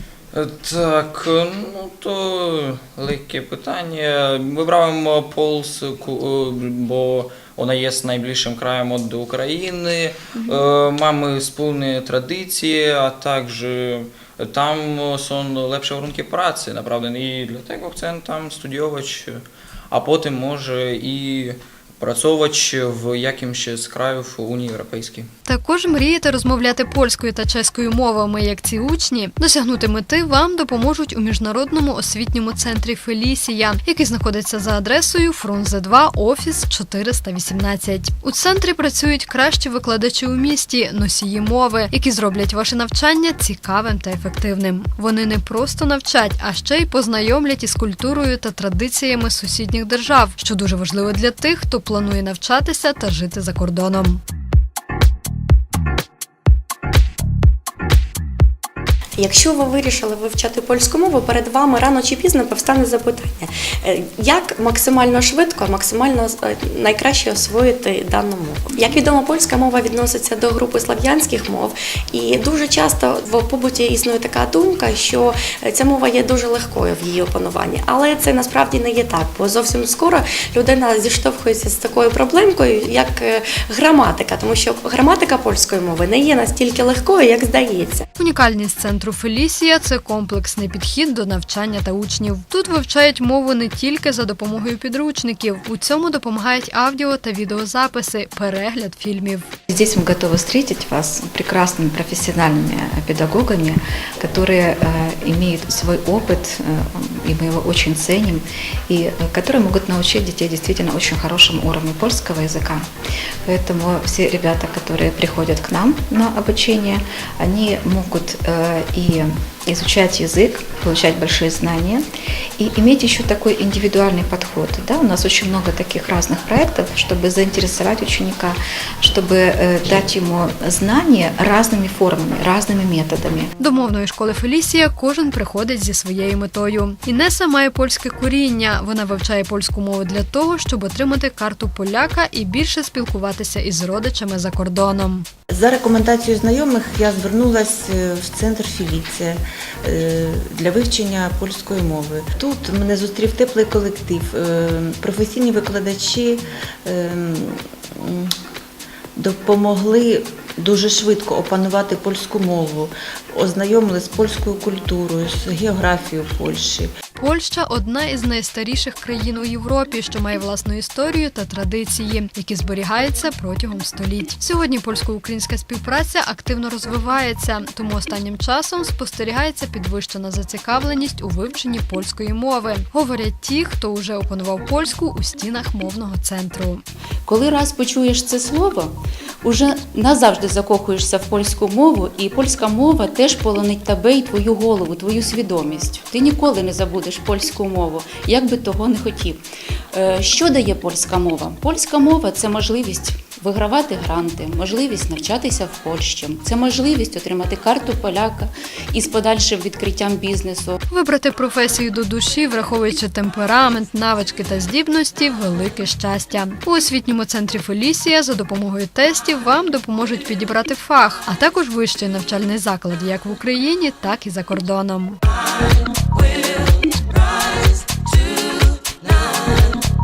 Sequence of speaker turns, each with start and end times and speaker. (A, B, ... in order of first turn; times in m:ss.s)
0:00.3-0:25.3 A
0:25.4-0:54.2 B
0:59.1-1:28.0 C
1:28.2-1:39.4 B
1:39.7-1:52.8 D
1:53.4-2:02.0 D
2:02.6-2:13.5 D
2:13.6-2:25.2 B
2:25.5-2:38.3 E
2:39.2-2:46.9 E
2:47.1-3:06.8 B
3:07.2-3:19.4 F
3:19.9-3:30.8 F
3:30.9-3:45.2 B